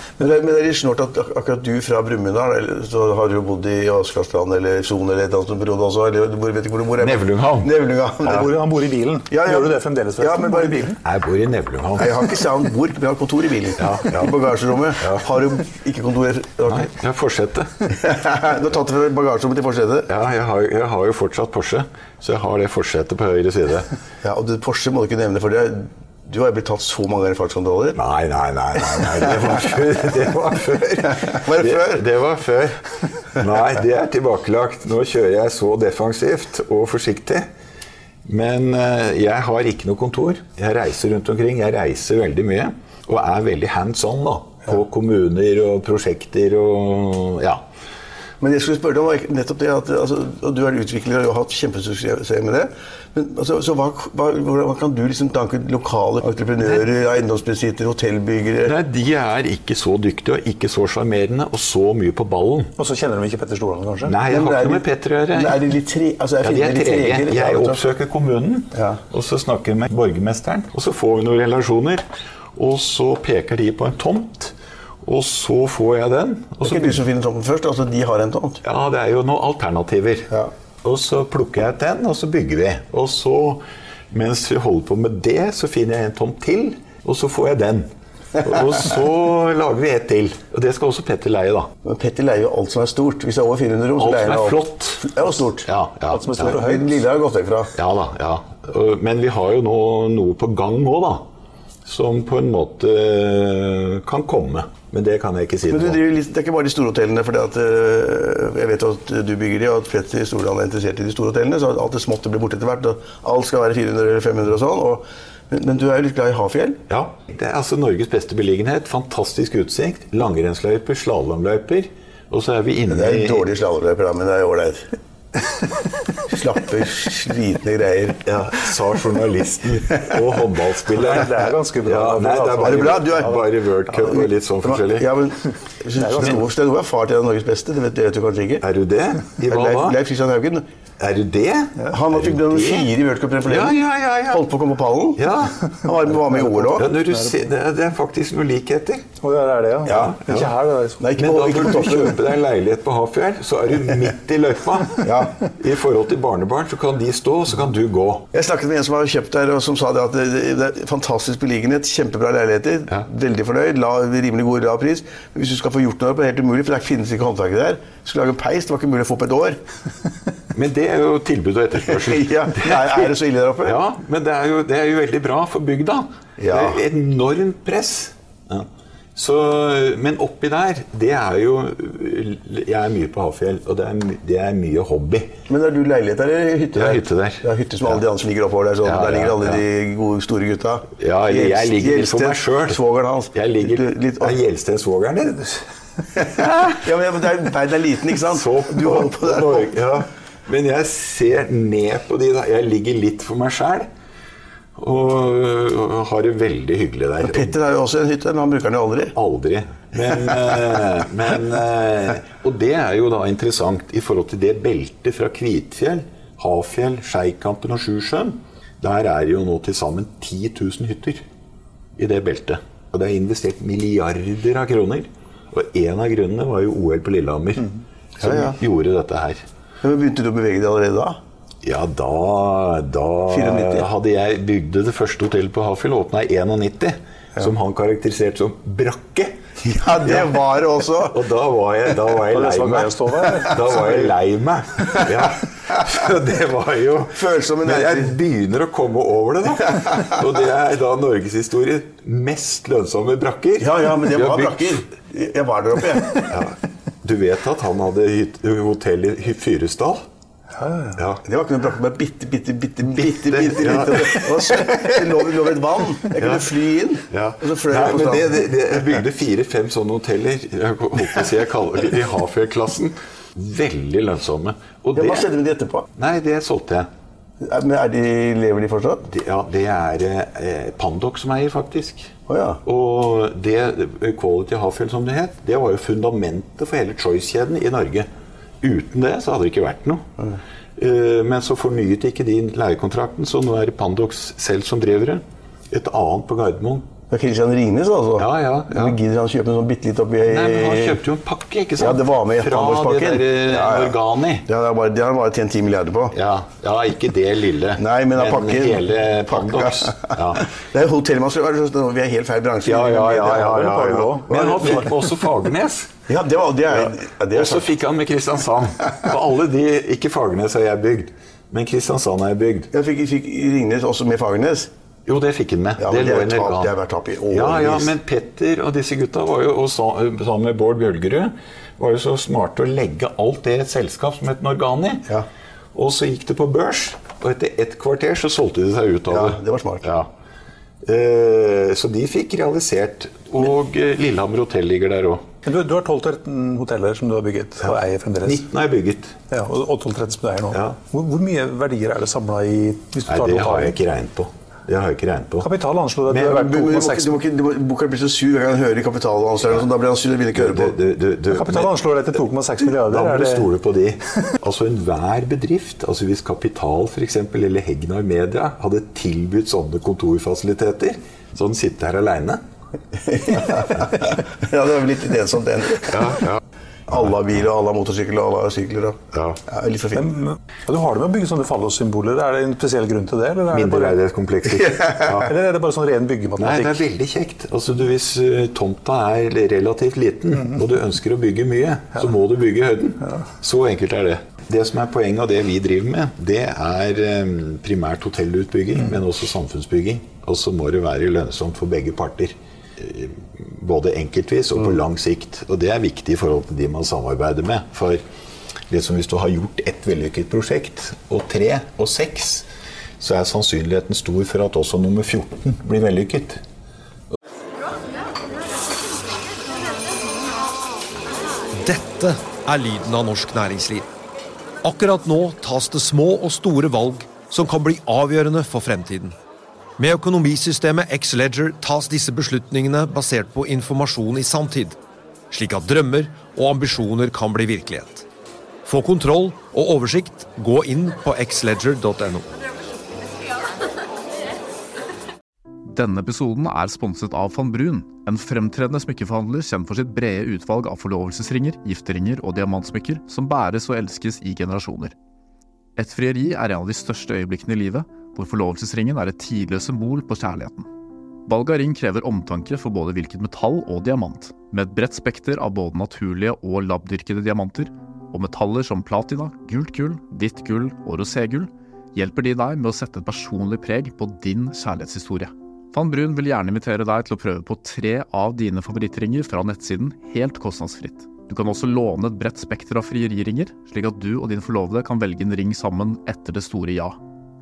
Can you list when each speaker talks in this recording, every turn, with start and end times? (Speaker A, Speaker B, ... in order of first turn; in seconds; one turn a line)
Speaker A: 0.2-8.5
Speaker B: 7.0-7.7
Speaker C: 8.2-10.9
Speaker A: 9.3-10.9
Speaker B: 11.0-12.2
Speaker A: 12.0-16.9
Speaker B: 13.8-14.3
Speaker B: 15.0-15.3
Speaker B: 16.7-17.7
Speaker A: 17.9-20.1
Speaker B: 20.1-23.9
Speaker A: 24.2-28.0
Speaker B: 27.9-32.8
Speaker A: 31.1-32.0
Speaker B: 33.3-37.5
Speaker B: 38.2-47.6
Speaker A: 48.4-58.7
Speaker B: 58.6-62.7
Speaker C: 62.8-64.2
Speaker B: 64.0-65.6
Speaker A: 64.2-67.8
Speaker B: 66.4-77.0
Speaker A: 68.7-69.0
Speaker A: 76.6-78.6
Speaker B: 78.6-80.3
Speaker B: 80.8-91.7
Speaker A: 91.8-95.7
Speaker B: 94.0-96.6
Speaker C: 96.1-97.0
Speaker A: 96.4-97.7
Speaker B: 97.7-101.2
Speaker B: 101.8-106.0
Speaker A: 105.7-116.8
Speaker B: 116.9-123.5
Speaker A: 122.9-124.9
Speaker A: 126.3-128.2
Speaker B: 128.2-135.1
Speaker C: 130.9-133.1
Speaker A: 132.6-138.6
Speaker C: 136.0-136.4
Speaker B: 138.6-140.0
Speaker A: 139.5-140.6
Speaker B: 141.0-142.9
Speaker A: 141.9-145.2
Speaker B: 143.4-144.4
Speaker B: 145.2-145.6
Speaker A: 145.8-146.9
Speaker B: 146.7-149.1
Speaker C: 149.2-151.0
Speaker B: 149.8-150.5
Speaker A: 149.8-150.1
Speaker A: 151.0-152.2
Speaker B: 151.2-158.3
Speaker A: 155.0-155.4
Speaker A: 158.3-169.6
Speaker B: 170.5-185.3
Speaker A: 171.9-173.8
Speaker A: 176.4-176.8
Speaker A: 185.5-194.3
Speaker B: 186.7-188.0
Speaker B: 188.8-189.6
Speaker B: 191.0-192.8
Speaker B: 193.3-195.6
Speaker A: 196.2-199.7
Speaker B: 196.3-196.8
Speaker B: 198.3-203.9
Speaker B: 204.8-207.6
Speaker A: 207.2-209.1
Speaker B: 209.1-221.2
Speaker B: 222.0-229.4
Speaker A: 228.2-228.6
Speaker A: 229.8-231.2
Speaker B: 231.6-240.3
Speaker A: 233.3-233.8
Speaker A: 239.7-241.2
Speaker B: 241.1-254.8
Speaker C: 242.3-244.0
Speaker A: 247.1-248.1
Speaker A: 253.6-256.4
Speaker B: 256.3-260.0
Speaker C: 260.6-261.0
Speaker B: 260.9-261.2
Speaker A: 261.2-268.9
Speaker B: 262.9-265.0
Speaker B: 266.2-266.5
Speaker B: 267.1-275.3
Speaker A: 274.9-275.9
Speaker B: 275.9-276.9
Speaker A: 277.4-279.1
Speaker B: 279.0-282.1
Speaker A: 282.3-282.6
Speaker B: 282.6-288.1
Speaker B: 288.6-290.0
Speaker B: 290.8-296.9
Speaker A: 297.1-301.0
Speaker B: 298.2-299.0
Speaker B: 300.2-304.5
Speaker A: 301.8-303.9
Speaker A: 304.5-306.1
Speaker B: 306.1-310.4
Speaker A: 307.8-313.7
Speaker B: 312.6-315.9
Speaker C: 313.4-314.7
Speaker A: 314.3-314.9
Speaker A: 316.1-317.7
Speaker B: 316.7-322.7
Speaker A: 322.7-324.7
Speaker B: 325.1-326.7
Speaker A: 325.8-327.9
Speaker B: 327.3-335.1
Speaker B: 335.7-340.1
Speaker A: 339.1-339.9
Speaker B: 340.8-345.3
Speaker C: 345.4-348.4
Speaker B: 348.2-349.2
Speaker C: 349.3-353.7
Speaker B: 350.5-350.8
Speaker B: 353.1-355.5
Speaker C: 355.4-357.1
Speaker A: 356.1-360.7
Speaker B: 360.3-361.8
Speaker C: 361.3-363.5
Speaker B: 362.8-372.4
Speaker A: 373.0-376.2
Speaker B: 375.9-377.1
Speaker A: 376.9-380.1
Speaker B: 379.1-379.4
Speaker C: 379.9-384.0
Speaker B: 383.5-385.3
Speaker A: 384.6-385.2
Speaker C: 385.2-386.8
Speaker B: 386.4-408.0
Speaker B: 408.7-412.5
Speaker B: 413.0-416.4
Speaker D: 421.5-423.9
Speaker D: 424.6-429.1
Speaker D: 429.8-434.8
Speaker D: 435.3-438.0
Speaker D: 438.6-442.3
Speaker E: 445.6-454.9
Speaker E: 455.8-460.7
Speaker E: 461.2-487.0